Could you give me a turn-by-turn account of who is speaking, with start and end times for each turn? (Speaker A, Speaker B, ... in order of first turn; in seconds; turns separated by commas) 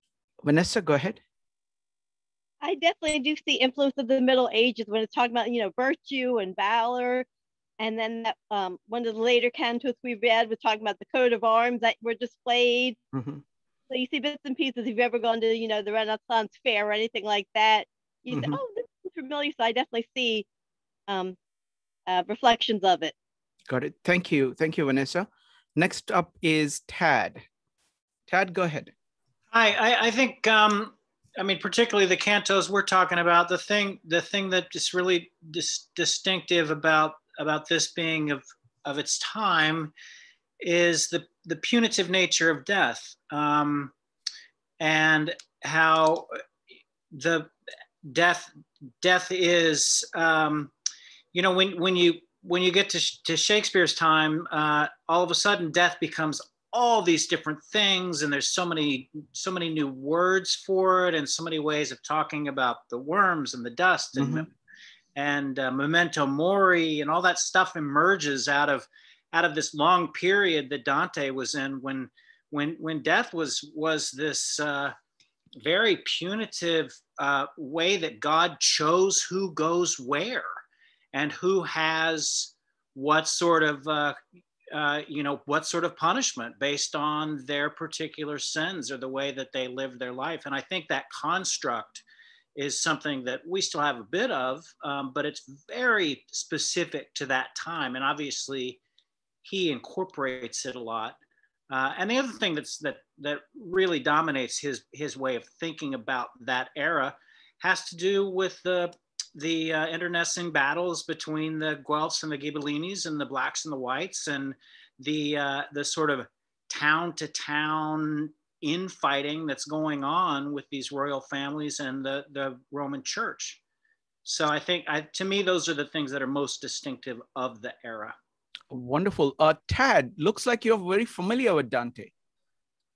Speaker A: 0.4-1.2, Speaker B: 2.6-7.2, Speaker B: 7.8-13.0, Speaker A: 13.1-13.4, Speaker B: 13.9-20.4, Speaker A: 18.3-18.6, Speaker B: 21.1-21.4, Speaker B: 22.1-23.1, Speaker A: 23.7-27.4, Speaker A: 28.3-28.9, Speaker C: 29.5-39.9, Speaker C: 40.6-43.9, Speaker C: 44.8-46.3, Speaker C: 47.1-47.5, Speaker C: 48.0-48.5, Speaker C: 49.0-50.7, Speaker C: 51.3-64.5, Speaker A: 64.2-64.5, Speaker C: 65.1-74.9, Speaker C: 75.5-80.5, Speaker C: 81.1-84.2, Speaker C: 84.7-98.8, Speaker C: 99.4-101.2, Speaker C: 101.7-123.6, Speaker C: 124.2-128.2, Speaker A: 128.7-132.1